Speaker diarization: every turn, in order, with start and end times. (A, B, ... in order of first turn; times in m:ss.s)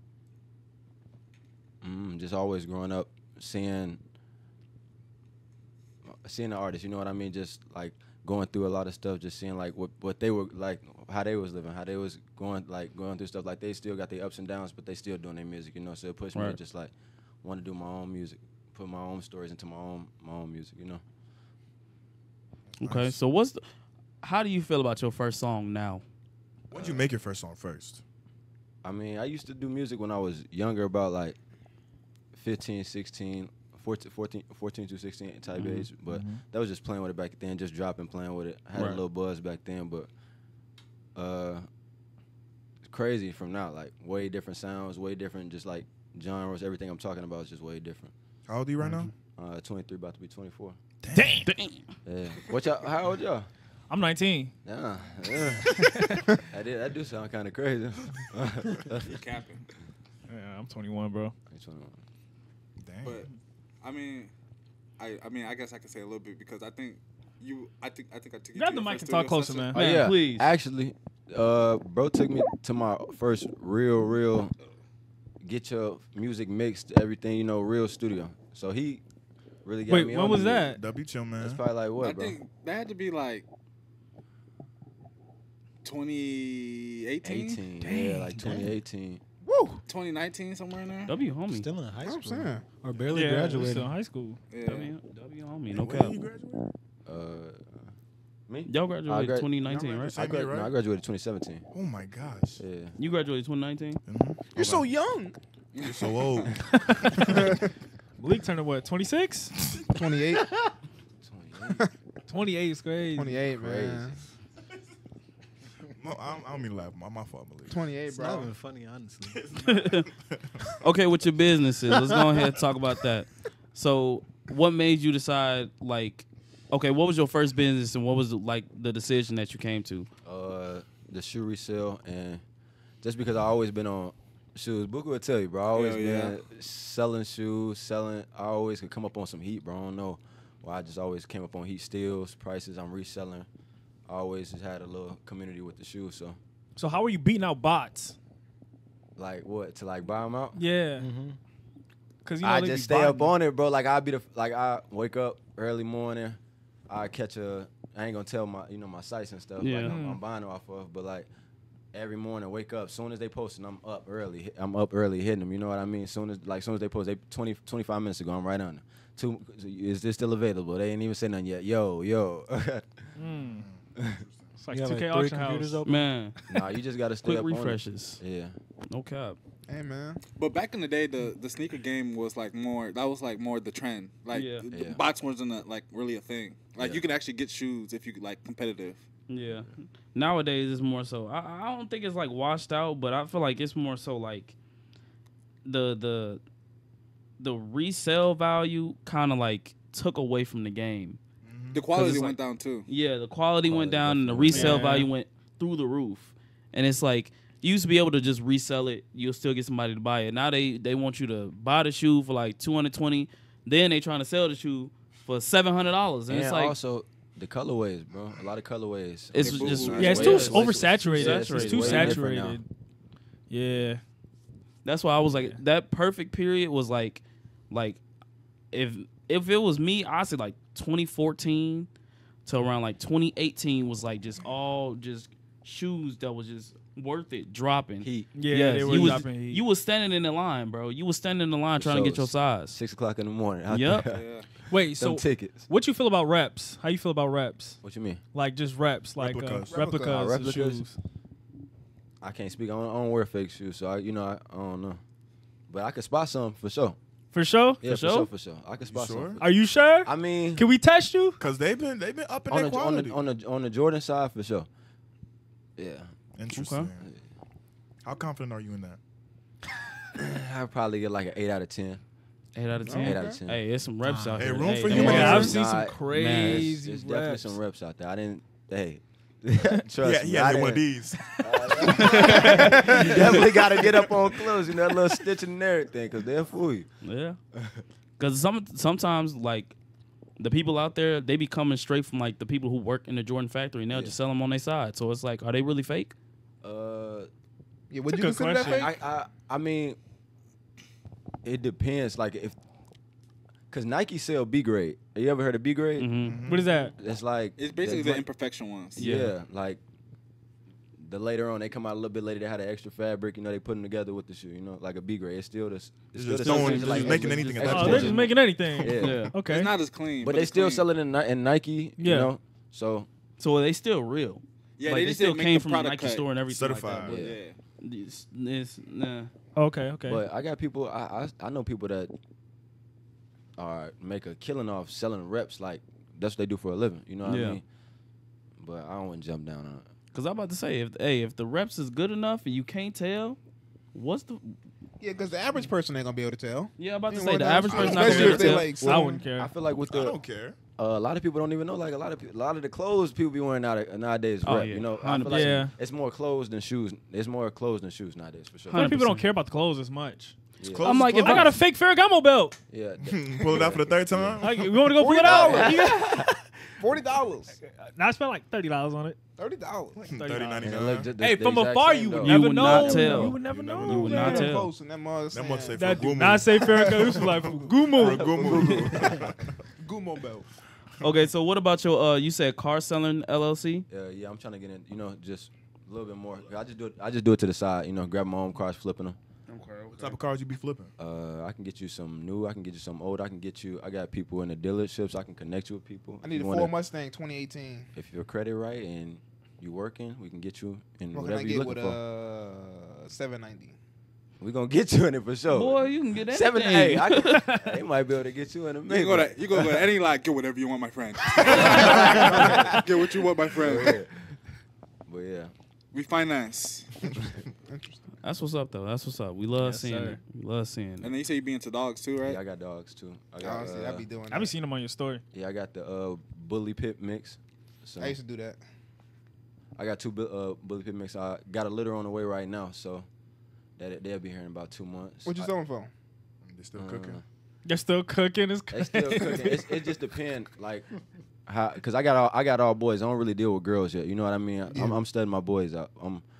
0:01.8-0:04.0 A
0:06.0-0:16.9 A
0:17.4-0:21.0 A
0:22.8-0:23.2 B
0:22.8-0:23.6 C
0:24.2-0:26.0 C
0:26.7-0:28.0 B
0:26.7-0:27.0 A
0:28.8-0:31.4 A
0:32.3-0:40.1 A
0:35.6-0:35.9 C
0:38.8-0:39.0 C
0:41.2-0:41.6 A
0:42.8-0:48.1 A
0:48.5-0:49.1 B
0:49.4-0:50.8 A
0:51.0-0:51.4 B
0:51.1-0:51.4 D
0:51.4-0:51.8 C
0:52.0-0:53.5 A
0:53.9-0:54.5 D
0:54.6-0:55.9 A
0:56.5-0:59.2 A
0:59.1-0:59.7 E
1:00.3-1:01.3 D
1:01.5-1:02.0 A
1:02.8-1:03.2 B
1:03.8-1:04.3 E
1:05.0-1:09.8 E
1:08.5-1:10.1 D
1:09.7-1:14.5 A
1:09.8-1:10.5 C
1:15.4-1:19.0 A
1:19.6-1:20.7 A
1:19.9-1:20.8 D
1:20.7-1:21.6 B
1:21.4-1:22.4 A
1:22.0-1:23.4 E
1:25.8-1:27.6 E
1:27.2-1:29.2 A
1:27.8-1:28.2 D
1:28.3-1:28.7 F
1:29.4-1:29.8 G
1:29.9-1:31.1 E
1:31.1-1:31.7 C
1:31.5-1:33.9 F
1:32.0-1:32.6 G
1:33.1-1:34.4 D
1:34.5-1:34.9 E
1:34.6-1:36.2 C
1:35.7-1:36.7 B
1:37.0-1:37.8 A
1:38.5-1:39.5 A
1:38.7-1:40.2 C
1:39.6-1:40.7 B
1:40.1-1:41.6 A
1:41.7-1:42.6 B
1:42.6-1:42.9 A
1:43.0-1:44.0 C
1:44.1-1:44.8 B
1:44.5-1:45.4 G
1:45.7-1:46.5 E
1:45.8-1:47.4 B
1:46.7-1:47.1 D
1:47.2-1:47.7 G
1:48.2-1:49.5 D
1:49.9-1:50.5 G
1:51.2-1:51.8 A
1:52.3-1:53.4 D
1:53.1-1:54.2 G
1:53.6-1:54.2 A
1:56.0-1:57.7 B
1:57.7-1:58.5 G
1:58.1-1:59.5 F
1:59.3-2:00.6 B
1:59.7-2:00.0 C
2:00.8-2:10.1 C
2:01.9-2:02.2 F
2:10.2-2:12.4 A
2:13.0-2:23.5 A
2:15.7-2:16.4 E
2:24.1-2:26.4 A
2:26.8-2:28.2 D
2:29.2-2:30.6 A
2:30.5-2:31.1 D
2:31.0-2:31.4 F
2:32.2-2:33.3 D
2:32.4-2:36.4 A
2:36.9-2:41.3 A
2:39.6-2:40.0 C
2:39.8-2:40.2 D
2:41.9-2:53.1 A
2:53.2-2:53.7 D
2:53.6-2:54.6 B
2:54.0-2:54.2 A
2:54.6-2:56.6 D
2:54.7-2:55.9 F
2:55.8-2:56.4 C
2:56.5-2:58.5 A
2:57.2-2:58.2 C
2:58.9-2:59.4 C
2:59.7-3:00.2 G
3:00.4-3:09.0 E
3:04.3-3:04.7 C
3:04.7-3:05.0 A
3:06.8-3:07.1 A
3:09.3-3:14.6 C
3:15.6-3:16.4 C
3:17.4-3:21.2 C
3:21.4-3:21.9 B
3:21.7-3:22.8 E
3:21.9-3:36.7 C
3:23.6-3:24.9 A
3:24.5-3:25.1 D
3:36.3-3:42.6 A
3:39.3-3:42.2 C
3:39.4-3:40.7 E
3:40.0-3:42.6 D
3:43.5-3:44.0 D
3:44.8-3:48.0 C
3:48.7-3:51.9 C
3:52.4-4:02.8 C
3:58.0-3:58.3 A
3:58.3-3:59.6 D
4:01.8-4:05.6 A
4:03.7-4:04.1 C
4:04.1-4:04.4 E
4:04.7-4:07.8 D
4:07.8-4:08.2 A
4:08.3-4:10.9 D
4:09.2-4:09.8 B
4:09.7-4:10.2 G
4:10.0-4:10.9 A
4:12.2-4:15.0 A
4:15.7-4:17.0 A
4:17.3-4:17.8 D
4:17.8-4:19.4 A
4:17.8-4:18.3 C
4:18.9-4:19.4 B
4:19.4-4:21.4 D
4:20.0-4:20.6 A
4:21.4-4:23.2 B
4:22.5-4:24.7 A
4:25.8-4:26.1 A
4:26.4-4:27.0 B
4:26.5-4:26.9 C
4:28.0-4:29.0 B
4:30.2-4:32.0 A
4:32.5-4:35.5 C
4:32.9-4:33.4 G
4:32.9-4:33.6 A
4:34.0-4:34.5 F
4:34.4-4:35.6 B
4:34.9-4:37.6 D
4:34.9-4:40.8 A
4:36.1-4:36.7 C
4:40.0-4:42.4 B
4:41.4-4:46.9 A
4:42.2-4:43.4 C
4:42.2-4:43.1 G
4:43.0-4:44.2 B
4:47.0-4:47.4 C
4:48.2-4:49.7 C
4:50.4-4:56.1 C
4:56.6-4:57.3 A
4:57.9-4:58.9 G
4:58.1-4:58.9 D
4:58.6-5:00.0 A
5:01.4-5:02.6 A
5:03.7-5:06.1 A
5:06.0-5:06.4 C
5:06.2-5:06.7 B
5:06.5-5:06.9 D
5:06.9-5:08.3 A
5:07.6-5:09.1 E
5:09.0-5:09.8 A
5:09.0-5:09.3 C
5:11.0-5:19.3 A
5:16.1-5:18.3 B
5:16.4-5:19.3 C
5:17.6-5:19.7 D
5:19.4-5:20.8 E
5:20.2-5:23.1 A
5:22.0-5:22.3 D
5:23.4-5:29.3 C
5:24.8-5:26.3 E
5:26.5-5:27.2 B
5:27.1-5:27.6 E
5:29.6-5:30.2 D
5:30.0-5:32.1 A
5:33.6-5:37.6 A
5:37.2-5:37.6 C
5:38.6-5:39.9 A
5:40.1-5:43.4 C
5:43.9-5:44.6 C
5:45.0-5:49.2 G
5:46.8-5:48.8 C
5:47.6-5:48.8 B
5:48.7-5:49.5 D
5:49.4-5:50.2 A
5:49.9-5:50.6 B
5:50.8-5:58.8 A
5:54.4-5:55.6 C
5:55.2-5:55.7 D
5:58.7-5:59.2 C
5:58.7-6:00.4 D
6:00.6-6:00.9 A
6:00.7-6:01.6 B
6:00.8-6:01.6 C
6:01.1-6:02.6 D
6:02.7-6:04.4 A
6:03.1-6:04.9 B
6:04.4-6:06.3 D
6:04.9-6:06.2 G
6:05.2-6:06.3 A
6:06.8-6:07.6 G
6:07.6-6:09.2 D
6:09.4-6:10.1 G
6:10.0-6:11.1 B
6:10.1-6:14.7 D
6:10.6-6:13.2 A
6:12.2-6:14.7 C
6:12.9-6:14.5 B
6:14.2-6:16.0 G
6:15.3-6:19.5 B
6:15.7-6:18.5 D
6:16.6-6:17.2 G
6:18.0-6:19.3 A
6:18.3-6:19.2 G
6:19.8-6:20.5 G
6:21.0-6:23.8 C
6:23.9-6:29.2 A
6:29.5-6:30.2 C
6:29.9-6:30.9 B
6:31.0-6:36.7 A
6:36.2-6:37.9 G
6:37.9-6:42.0 A
6:41.1-6:43.8 G
6:44.4-6:49.7 A
6:45.5-6:47.4 C
6:48.9-6:54.0 E
6:51.4-6:52.7 A
6:51.5-6:52.8 G
6:53.6-6:54.1 A
6:55.1-6:55.5 A
6:55.9-6:56.9 E
6:57.1-6:58.0 G
6:58.2-7:01.1 C
6:59.6-7:00.2 D
7:01.0-7:02.4 E
7:02.2-7:04.0 A
7:03.4-7:04.5 G
7:04.3-7:05.2 D
7:05.3-7:08.2 A
7:08.0-7:08.6 G
7:09.8-7:13.1 A
7:13.8-7:15.5 A
7:15.2-7:15.9 G
7:16.4-7:17.2 B
7:16.7-7:17.2 A
7:17.6-7:19.8 D
7:18.7-7:20.8 A
7:21.4-7:26.2 A
7:24.7-7:25.0 G